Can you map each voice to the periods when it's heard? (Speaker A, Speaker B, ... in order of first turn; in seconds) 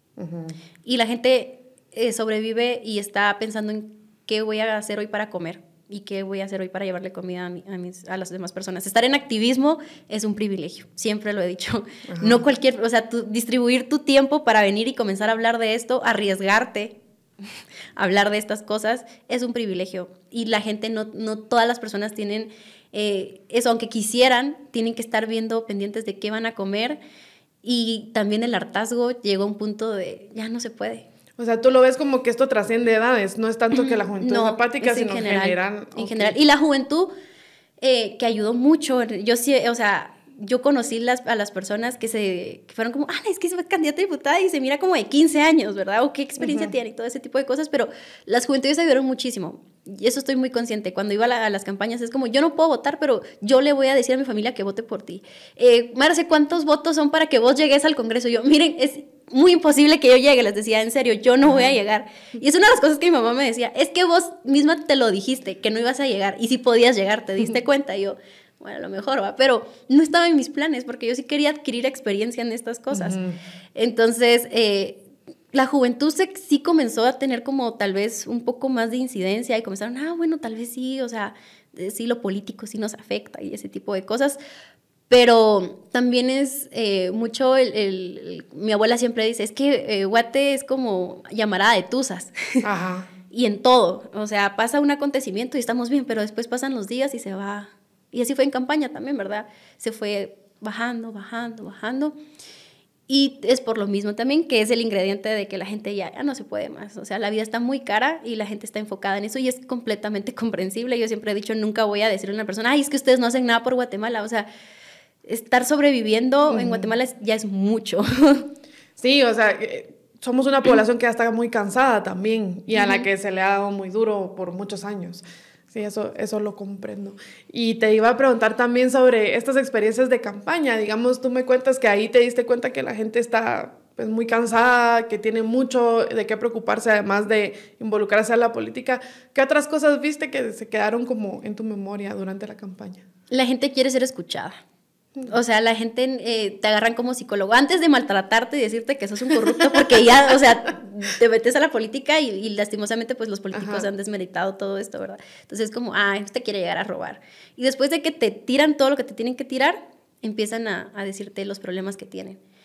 Speaker A: 0.2-0.6, 12.1-12.4, 31.4-36.4, 46.4-46.7, 61.4-61.7, 72.9-73.4, 92.6-93.1, 116.5-116.9, 119.0-143.0, 149.3-150.6, 153.5-153.9
Speaker B: 0.8-17.0, 18.0-27.0, 27.6-31.1, 33.7-37.1, 37.8-73.2, 73.8-75.0, 75.5-84.4, 85.1-92.7, 93.3-102.2, 103.1-114.5, 115.3-118.5, 122.7-123.1, 143.3-144.6, 145.2-162.4